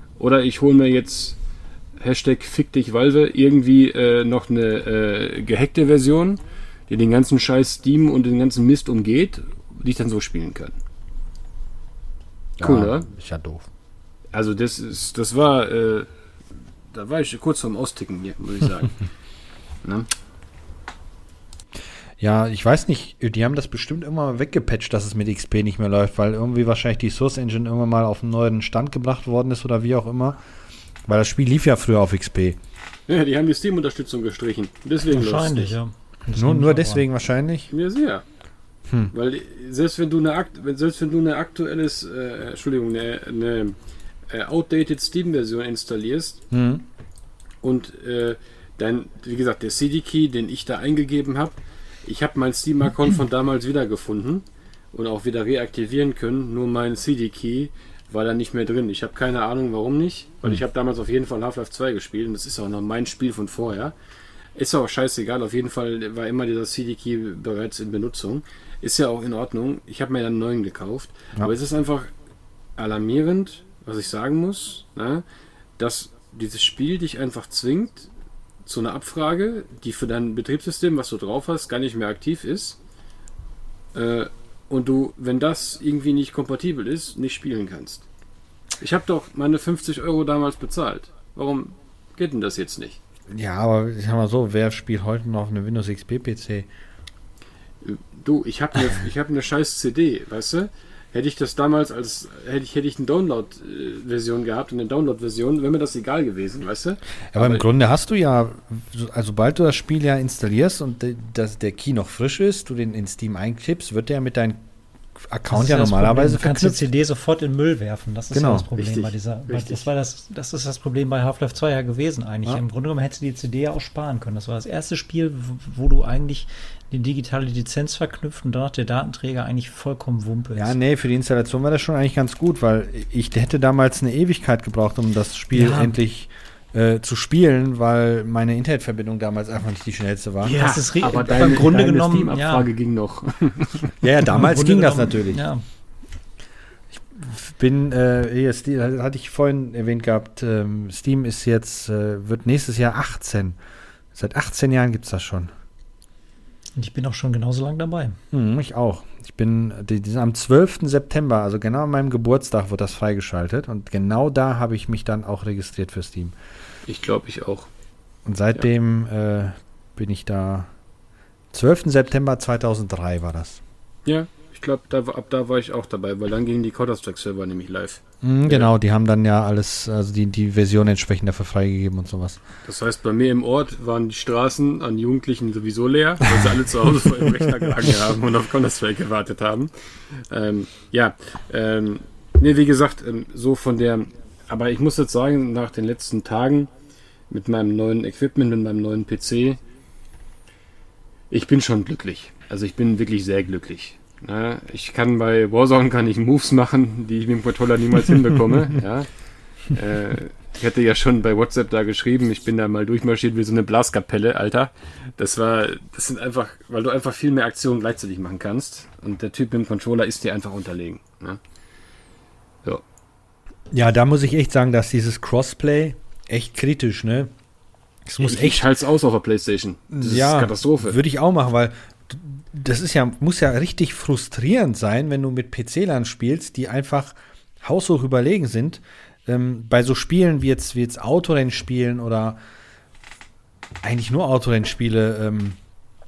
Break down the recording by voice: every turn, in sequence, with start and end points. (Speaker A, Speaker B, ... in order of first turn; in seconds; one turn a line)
Speaker A: 0.2-1.4
Speaker A: 2.0-10.8
Speaker A: 12.6-13.1
Speaker B: 12.6-13.7
Speaker A: 14.3-16.1
Speaker A: 16.9-19.0
Speaker B: 22.2-30.4
Speaker B: 31.1-32.6
Speaker A: 33.1-35.8
Speaker C: 35.1-37.0
Speaker B: 36.3-37.7
Speaker A: 37.7-38.2
Speaker A: 39.1-43.8
Speaker A: 44.3-46.4
Speaker B: 46.5-46.8
Speaker A: 47.6-63.9
Speaker A: 64.5-72.1
Speaker A: 72.8-75.2
Speaker A: 75.8-78.1
Speaker A: 78.7-82.8
Speaker A: 83.9-88.0
Speaker A: 88.8-93.0
Speaker B: 93.3-96.7
Speaker A: 97.8-107.7
Speaker B: 107.3-114.6
Speaker B: 115.2-116.8
Speaker C: 115.5-130.8
Speaker B: 118.3-118.7
Speaker A: 118.8-119.9
Speaker B: 130.6-140.6
Speaker C: 135.5-135.9
Speaker A: 140.4-143.9
Speaker C: 140.6-142.7
Speaker B: 144.0-145.4
Speaker C: 144.3-145.6
Speaker B: 146.9-153.6
Speaker B: 154.1-155.5
Speaker C: 156.8-158.2
Speaker B: 158.3-166.4
Speaker A: 166.9-167.7
Speaker B: 168.3-170.7
Speaker B: 171.5-173.6
Speaker A: 174.1-178.7
Speaker B: 178.2-182.4
Speaker A: 182.7-196.7
Speaker B: 186.2-187.6
Speaker A: 197.3-199.6
Speaker A: 201.3-209.1
Speaker A: 209.7-221.4
Speaker B: 223.7-227.3
Speaker B: 228.1-228.7
Speaker A: 228.2-231.0
Speaker B: 229.9-242.4
Speaker B: 243.8-245.6